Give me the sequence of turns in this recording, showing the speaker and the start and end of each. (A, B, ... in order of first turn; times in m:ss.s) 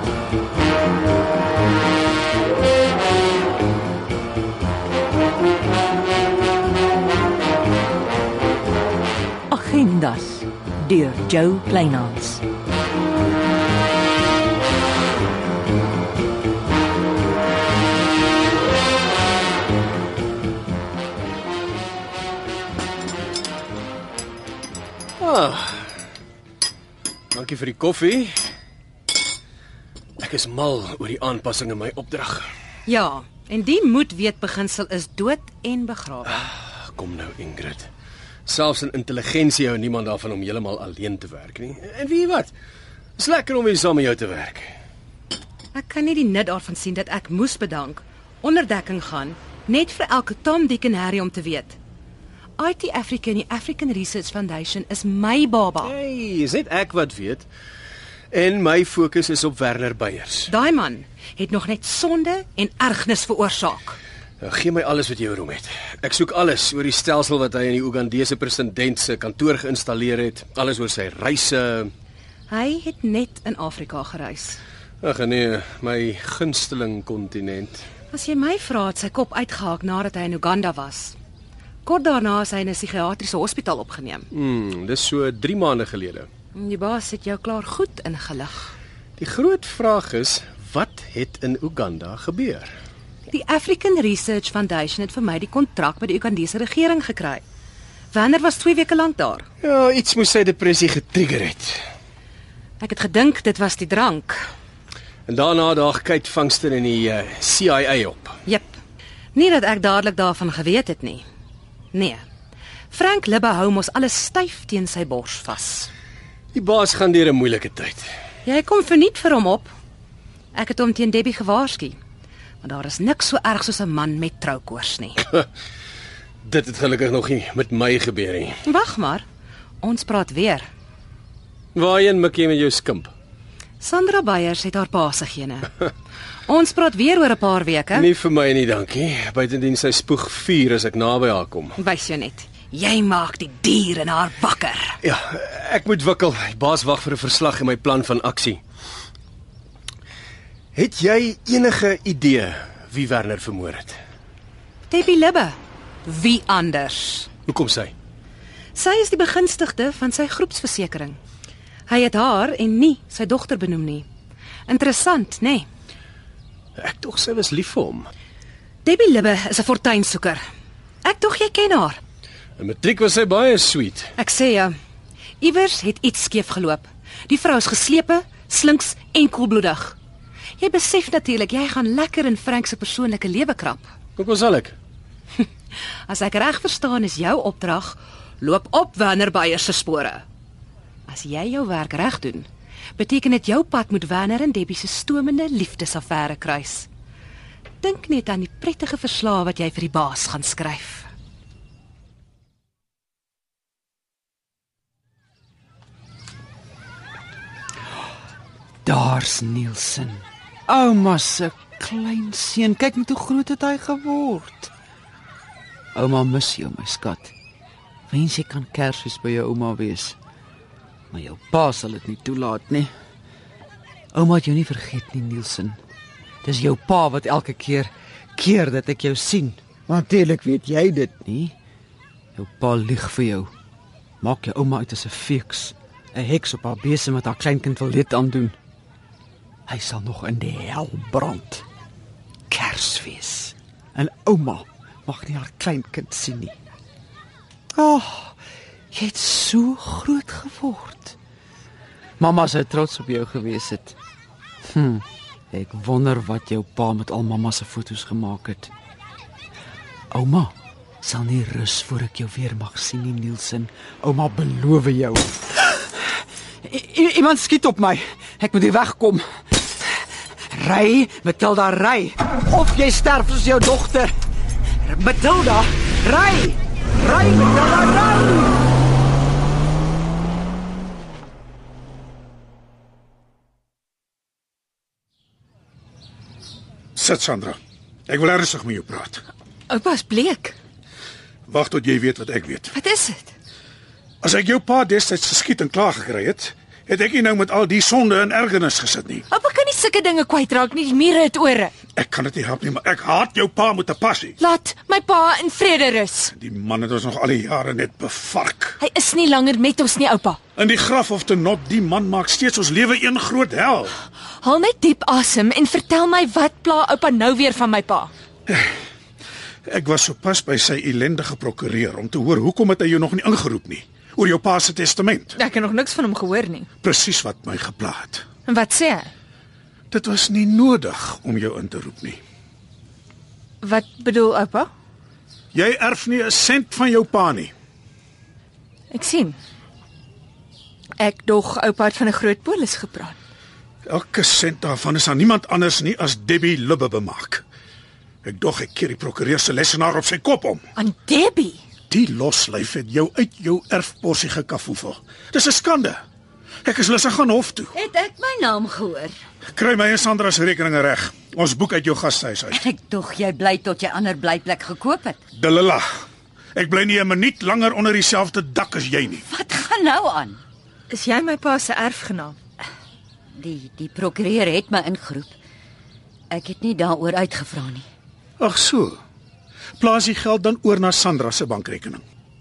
0:09.5-0:12.4 A
0:25.2-0:25.9 B
0:27.3-0:28.4 B
0:30.2-0:32.5 B
0:32.9-0:36.4 C
0:36.3-0:37.9 B
0:38.5-0:42.5 B
0:43.2-0:44.7 B
0:45.7-0:51.8 C
0:52.6-0:55.9 C
0:55.8-0:57.5 B
0:58.3-1:00.5 B
1:00.5-1:04.0 C
1:04.4-1:11.9 B
1:12.5-1:14.6 C
1:15.0-1:17.8 B
1:18.1-1:21.2 C
1:21.8-1:24.3 C
1:24.3-1:26.3 B
1:26.6-1:28.7 C
1:29.2-1:32.7 B
1:33.3-1:37.4 C
1:38.1-1:39.5 C
1:39.6-1:41.8 B
1:42.8-1:44.4 C
1:45.3-1:48.4 B
1:48.5-1:48.8 C
1:49.3-1:51.2 C
1:51.9-1:52.2 C
1:52.9-1:55.9 C
1:56.5-1:58.1 B
1:58.4-1:59.7 C
2:00.5-2:02.0 C
2:02.6-2:05.2 C
2:06.4-2:08.6 B
2:08.6-2:09.2 C
2:09.8-2:10.7 C
2:11.8-2:13.1 B
2:13.8-2:15.7 C
2:16.5-2:18.1 C
2:17.9-2:21.8 B
2:21.8-2:25.0 C
2:25.0-2:28.6 B
2:30.8-2:34.0 B
2:34.9-2:37.3 C
2:37.5-2:37.9 B
2:38.8-2:41.2 C
2:41.9-2:44.1 C
2:44.7-2:45.7 C
2:46.8-2:48.1 B
2:48.8-2:50.4 C
2:51.0-2:52.0 C
2:52.6-2:54.1 B
2:54.2-2:54.7 C
2:55.4-3:00.0 C
3:00.6-3:03.9 C
3:04.2-3:04.8 B
3:06.1-3:10.2 C
3:11.1-3:16.9 C
3:17.8-3:21.1 C
3:28.8-3:34.7 D
3:36.0-3:37.3 D
3:38.1-3:40.2 D
3:41.1-3:42.9 D
3:44.1-3:45.8 D
3:46.4-3:51.6 D
3:52.4-3:53.5 D
3:54.2-3:58.6 D
3:59.7-4:01.6 D
4:02.5-4:06.6 D
4:07.8-4:08.4 D
4:08.9-4:11.2 D
4:12.2-4:14.0 D
4:14.7-4:18.7 D
4:20.1-4:25.9 D
4:26.6-4:29.7 D
4:30.5-4:34.1 D
4:34.8-4:38.6 D
4:47.0-4:47.6 E
4:48.1-4:49.2 E
4:49.7-4:50.6 F
4:51.5-4:52.7 E
4:52.7-4:53.3 F
4:54.2-4:59.3 E
4:59.3-5:01.7 F
5:02.0-5:04.4 E
5:04.4-5:06.3 F
5:06.3-5:08.8 E
5:08.8-5:10.4 F
5:10.6-5:14.0 E
5:14.4-5:18.1 F
5:18.5-5:18.7 E
5:19.7-5:25.4 E
5:25.4-5:26.7 F
5:26.8-5:28.3 E
5:28.5-5:29.1 F
5:29.9-5:32.2 E
5:33.6-5:34.7 F
5:35.5-5:37.5 E
5:38.9-5:39.4 F
5:41.0-5:43.2 F
5:43.9-5:47.4 E
5:48.2-5:50.7 E
5:50.8-5:51.6 F
5:51.9-5:56.0 E
5:56.6-5:57.8 E
5:57.7-5:59.2 G
5:59.5-6:02.6 E
6:02.5-6:05.2 G
6:05.4-6:06.0 E
6:06.6-6:09.2 E
6:09.2-6:10.4 G
6:10.9-6:12.4 F
6:13.4-6:15.4 G
6:16.3-6:17.9 G
6:18.4-6:19.0 E
6:19.8-6:22.0 E